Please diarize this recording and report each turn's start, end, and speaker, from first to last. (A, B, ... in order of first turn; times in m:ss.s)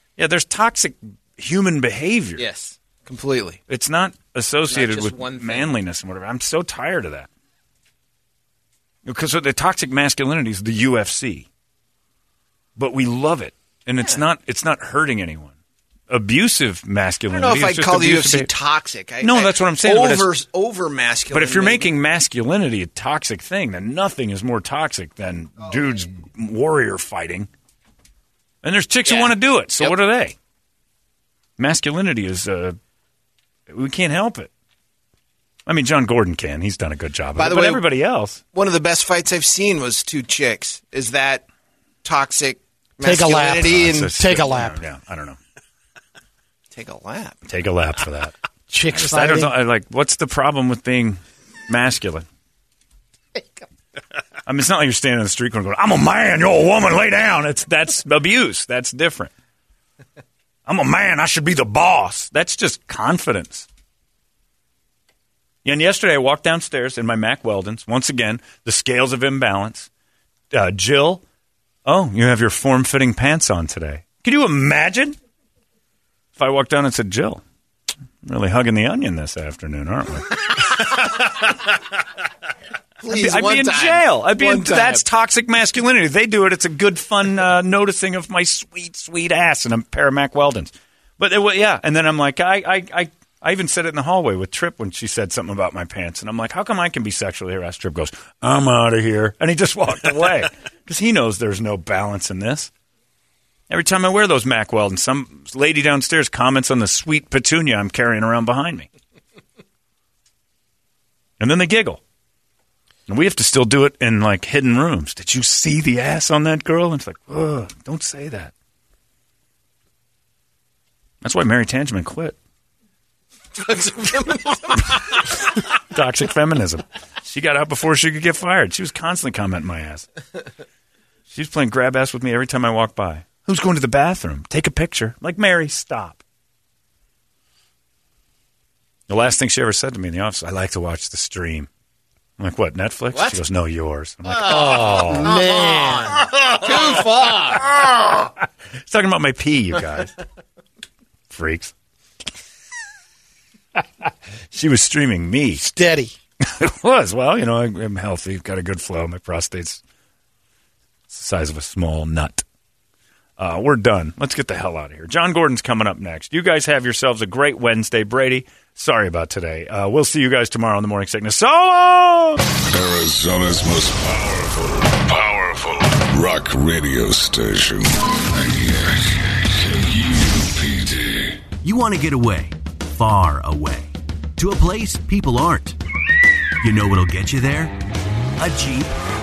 0:00.2-0:02.4 A
0:02.4-0:03.6 B
0:03.7-0:07.3 A
0:04.7-0:05.7 B
0:09.0-0:11.5 A
0:12.8-0:15.6 A
0:16.1-0:18.5 A
0:17.3-0:21.9 B
0:19.2-0:20.3 A
0:21.3-0:27.5 A
0:28.6-0:30.4 A
0:29.1-0:30.0 B
0:31.6-0:32.8 A
0:33.7-0:34.5 A
0:35.7-0:38.4 A
0:37.4-0:37.8 B
0:38.5-0:41.4 B
0:42.0-0:44.1 B
0:43.0-0:44.8 C
0:43.6-0:45.4 A
0:46.7-0:47.4 B
0:47.4-0:48.4 A
0:48.7-0:49.5 C
0:48.9-0:52.2 A
0:54.5-0:59.3 A
1:00.7-1:03.7 A
1:05.6-1:09.9 A
1:10.5-1:11.2 A
1:11.8-1:15.2 A
1:16.4-1:17.4 A
1:18.2-1:21.1 A
1:23.0-1:25.0 B
1:23.1-1:42.7 A
1:43.7-1:48.9 A
1:51.4-1:52.0 A
1:53.1-1:58.5 A
2:01.2-2:02.4 A
2:03.6-2:04.8 B
2:05.0-2:10.1 A
2:11.3-2:16.2 A
2:19.1-2:21.7 A
2:22.4-2:25.4 A
2:23.1-2:23.4 B
2:24.5-2:26.2 C
2:25.2-2:27.7 B
2:28.8-2:30.2 A
2:31.3-2:31.7 A
2:33.8-2:35.7 A
2:35.5-2:36.1 C
2:36.5-2:39.8 A
2:41.1-2:42.4 A
2:43.4-2:52.4 A
2:52.6-3:01.4 D
3:01.6-3:05.8 E
3:06.6-3:07.8 E
3:08.4-3:09.0 E